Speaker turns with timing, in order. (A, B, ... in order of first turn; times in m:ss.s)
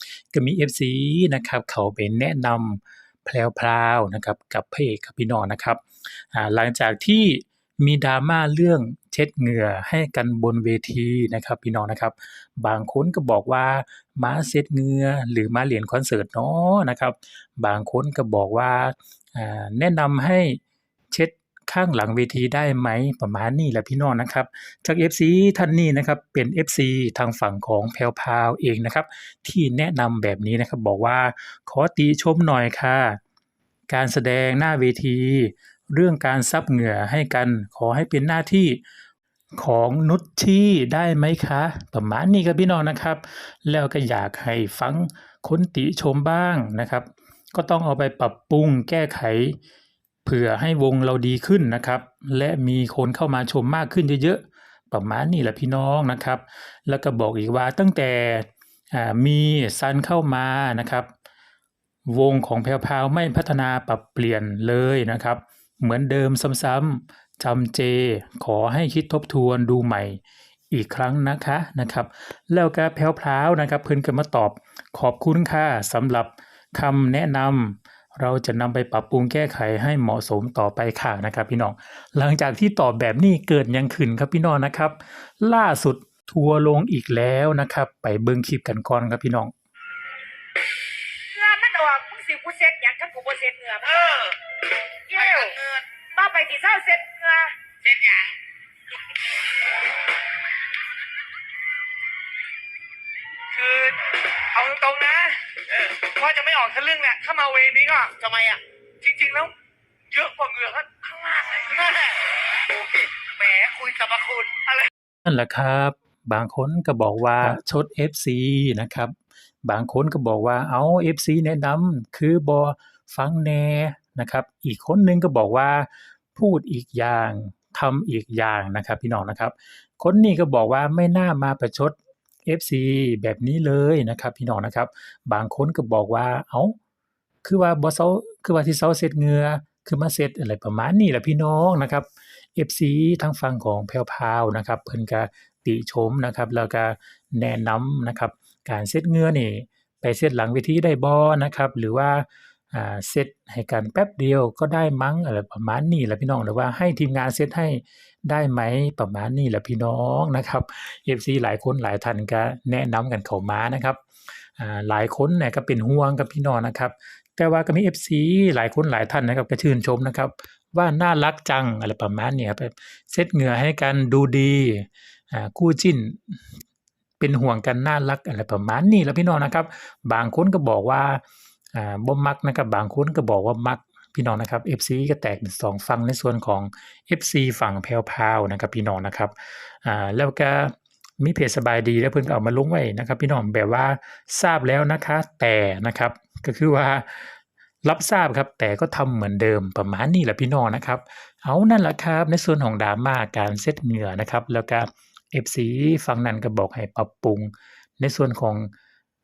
0:00.3-0:20.6 A
0:21.1-0:33.2 A
0:33.9-0:38.8 A
0:39.6-0:49.6 A
0:50.2-1:01.1 A
1:02.1-1:10.2 A
1:10.7-1:29.5 A
1:31.3-1:34.2 B
1:33.8-1:34.4 C
1:35.1-1:35.6 B
1:35.1-1:35.8 C
1:36.2-1:37.5 B
1:37.8-1:38.3 C
1:43.5-1:49.5 C
1:50.1-1:54.9 C
1:55.2-2:16.8 A
2:17.4-2:56.6 A
2:57.2-3:01.2 A
3:01.7-3:28.7 A